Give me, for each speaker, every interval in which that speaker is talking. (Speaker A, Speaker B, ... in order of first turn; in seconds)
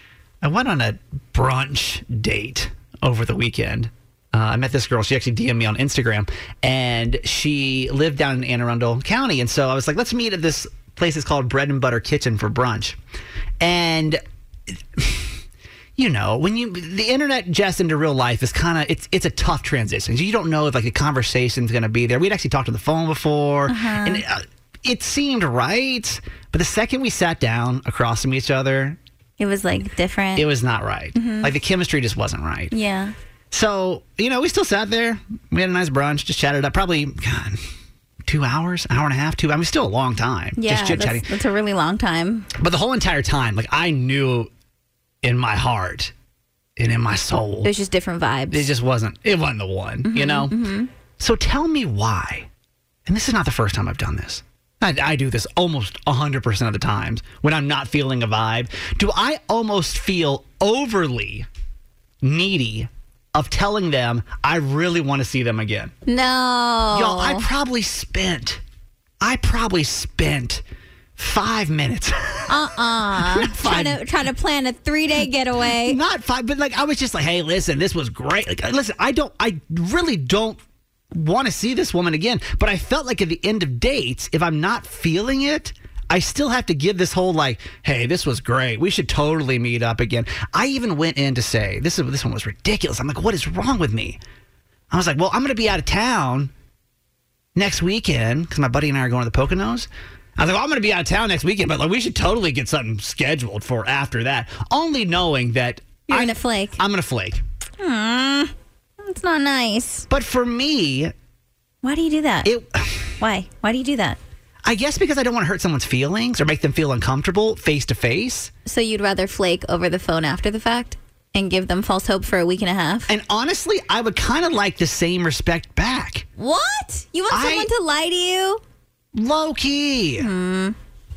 Speaker A: 0.4-13.0, 13.6-14.2, 14.9-15.4, 16.0-29.0, 30.4-32.7, 33.5-37.6, 38.3-41.3, 42.6-44.5, 45.2-46.1, 46.8-47.7, 48.5-50.5, 51.2-52.5, 53.1-61.5, 62.2-65.9, 66.9-68.6, 69.2-70.6, 71.2-74.0, 75.7-80.6, 81.1-94.2, 94.9-96.5, 97.6-107.4, 110.1-111.1, 112.5-113.1, 114.7-118.5, 123.1-126.2, 127.3-127.7, 129.2-130.3
Speaker B: 23.7-24.2, 29.4-30.5, 31.1-31.5, 32.7-33.1, 40.6-42.5, 47.6-48.7, 50.0-50.9, 66.1-67.5, 72.5-76.0, 106.1-106.8, 107.8-110.1, 111.8-112.5, 113.2-114.2, 118.7-123.1, 126.4-128.6, 130.2-130.8